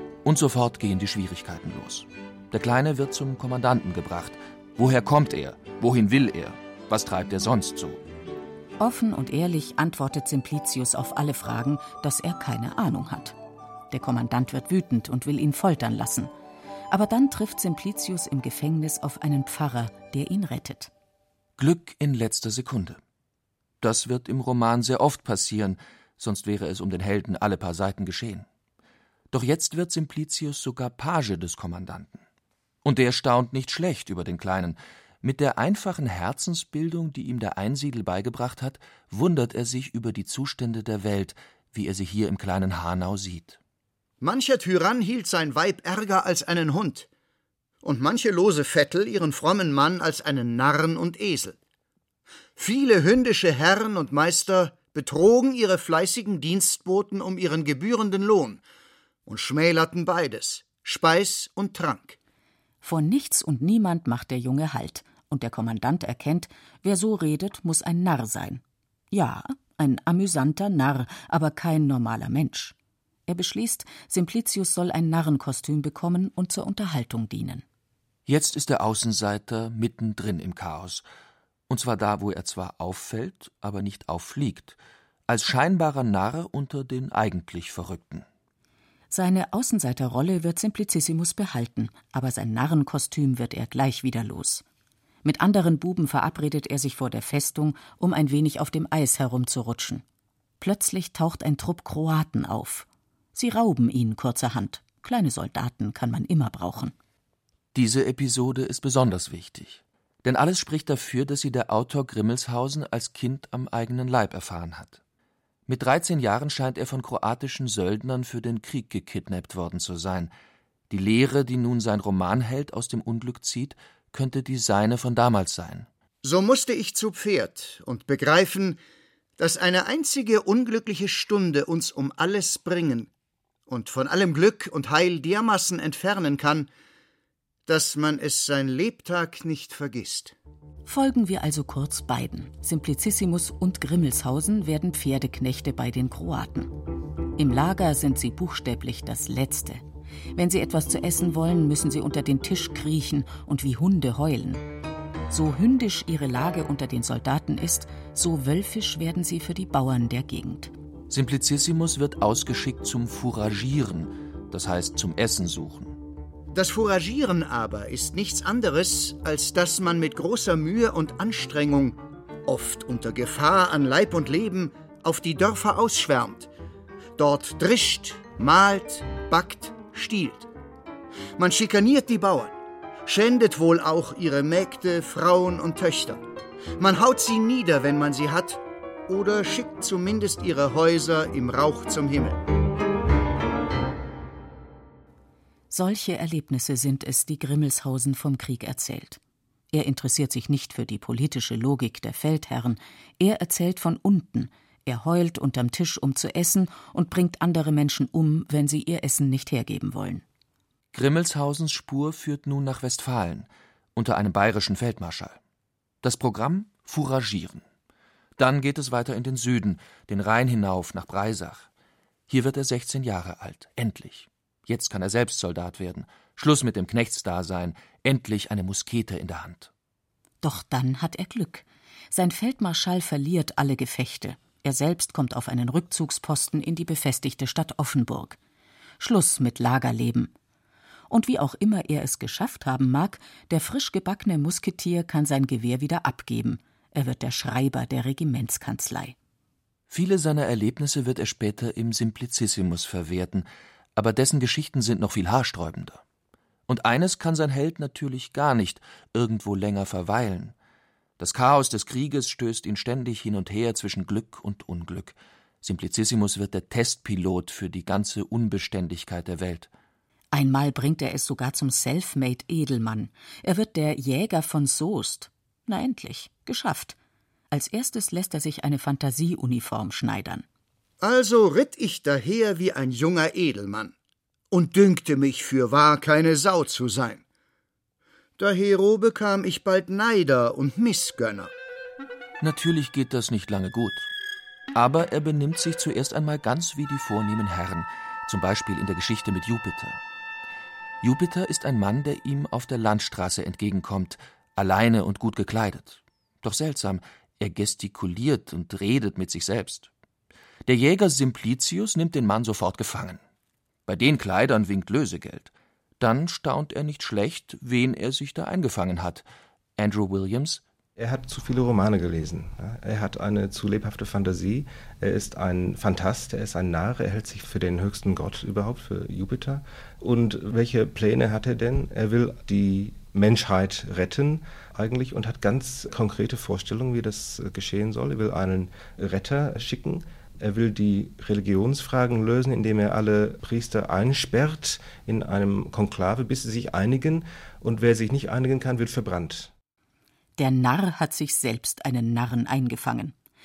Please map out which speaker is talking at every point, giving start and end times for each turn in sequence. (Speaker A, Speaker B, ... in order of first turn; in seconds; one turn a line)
Speaker A: 0.2-8.0
Speaker B: 8.8-13.3
Speaker B: 13.9-16.3
Speaker B: 16.9-20.9
Speaker A: 21.6-23.0
Speaker A: 23.8-28.4
Speaker A: 29.3-32.2
Speaker A: 32.8-43.6
Speaker C: 44.2-47.1
Speaker C: 47.8-51.6
Speaker C: 52.6-58.6
Speaker C: 59.3-62.2
Speaker B: 62.8-72.7
Speaker B: 73.3-77.6
Speaker A: 78.3-81.0
Speaker A: 81.7-84.8
Speaker A: 85.3-88.2
Speaker B: 89.1-94.6
Speaker B: 95.2-100.0
Speaker B: 100.6-106.9
Speaker A: 107.7-115.0
Speaker A: 115.7-120.3
Speaker A: 120.9-125.9
Speaker C: 126.2-128.8
Speaker C: 129.4-133.1
Speaker C: 133.7-136.7
Speaker C: 137.7-140.3
Speaker B: 140.8-146.7
Speaker B: 147.4-149.8
Speaker B: 150.3-154.6
Speaker B: 155.3-160.7
Speaker A: 161.1-165.9
Speaker C: 166.5-176.5
Speaker C: 177.2-180.5
Speaker C: 181.3-186.2
Speaker C: 186.8-192.4
Speaker B: 195.7-199.2
Speaker B: 199.7-210.2
Speaker A: 210.9-215.4
Speaker A: 216.0-217.6
Speaker A: 218.4-221.7
Speaker A: 222.3-229.7
Speaker B: 230.4-238.4
Speaker B: 239.0-240.3
Speaker B: 241.1-249.1
Speaker A: 249.9-256.0
Speaker A: 256.7-260.5
Speaker A: 261.2-269.7
Speaker B: 270.3-276.9
Speaker B: 277.5-280.4
Speaker C: 281.0-283.9
Speaker C: 284.5-287.2
Speaker C: 288.4-291.5
Speaker A: 292.4-294.1
Speaker A: 294.7-300.0
Speaker A: 301.0-309.9
Speaker A: 310.6-313.2
Speaker A: 313.9-319.2
Speaker A: 319.8-320.6
Speaker D: 321.0-349.5
Speaker B: 350.4-353.1